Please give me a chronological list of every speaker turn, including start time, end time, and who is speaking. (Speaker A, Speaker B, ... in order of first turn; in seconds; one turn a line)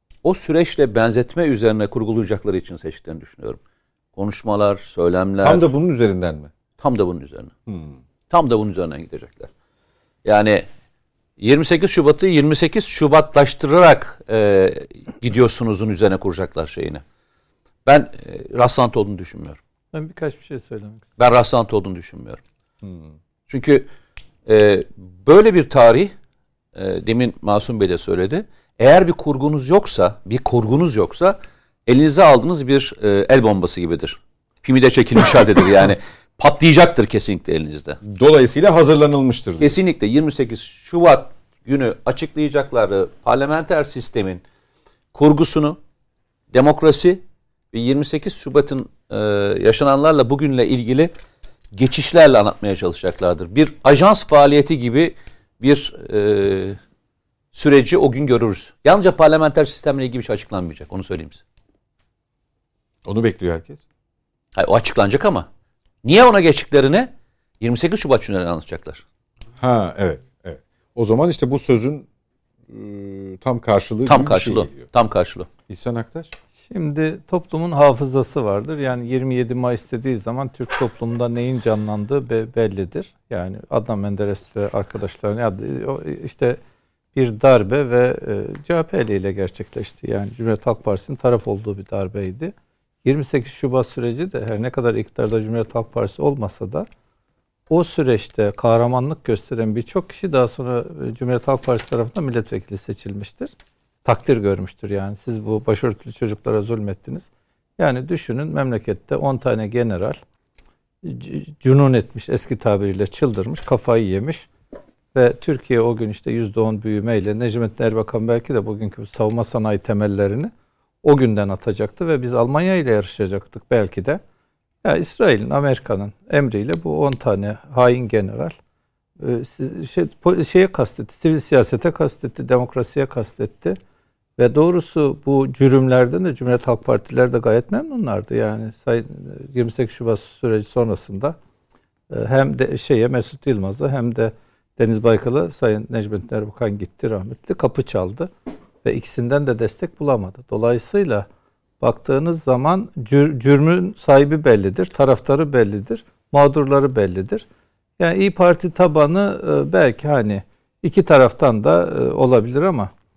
Speaker A: 0.2-3.6
Speaker A: 4.2-5.7
Speaker B: 5.4-6.5
Speaker A: 6.8-7.5
Speaker B: 7.7-7.9
Speaker A: 8.3-9.5
Speaker A: 10.2-10.7
Speaker A: 11.4-17.0
Speaker A: 17.9-19.6
Speaker C: 19.9-21.1
Speaker A: 21.2-22.4
Speaker A: 23.5-23.9
Speaker A: 24.5-26.1
Speaker A: 26.8-38.0
Speaker B: 38.0-39.8
Speaker A: 39.6-44.4
Speaker A: 45.1-45.8
Speaker A: 46.5-47.2
Speaker A: 47.7-51.1
Speaker A: 51.7-56.8
Speaker A: 57.5-61.4
Speaker B: 63.1-63.8
Speaker A: 64.6-65.5
Speaker A: 66.0-69.0
Speaker B: 69.6-72.0
Speaker B: 72.7-74.9
Speaker A: 74.1-75.5
Speaker B: 75.7-76.3
Speaker C: 76.7-86.6
Speaker C: 87.2-96.9
Speaker C: 97.7-103.5
Speaker C: 104.0-110.2
Speaker C: 111.0-114.5
Speaker C: 115.1-120.5
Speaker C: 121.0-124.2
Speaker C: 124.8-128.6
Speaker C: 129.2-133.8
Speaker C: 134.4-141.4
Speaker C: 142.1-148.3
Speaker C: 148.8-151.3
Speaker C: 151.8-157.5
Speaker C: 158.0-162.9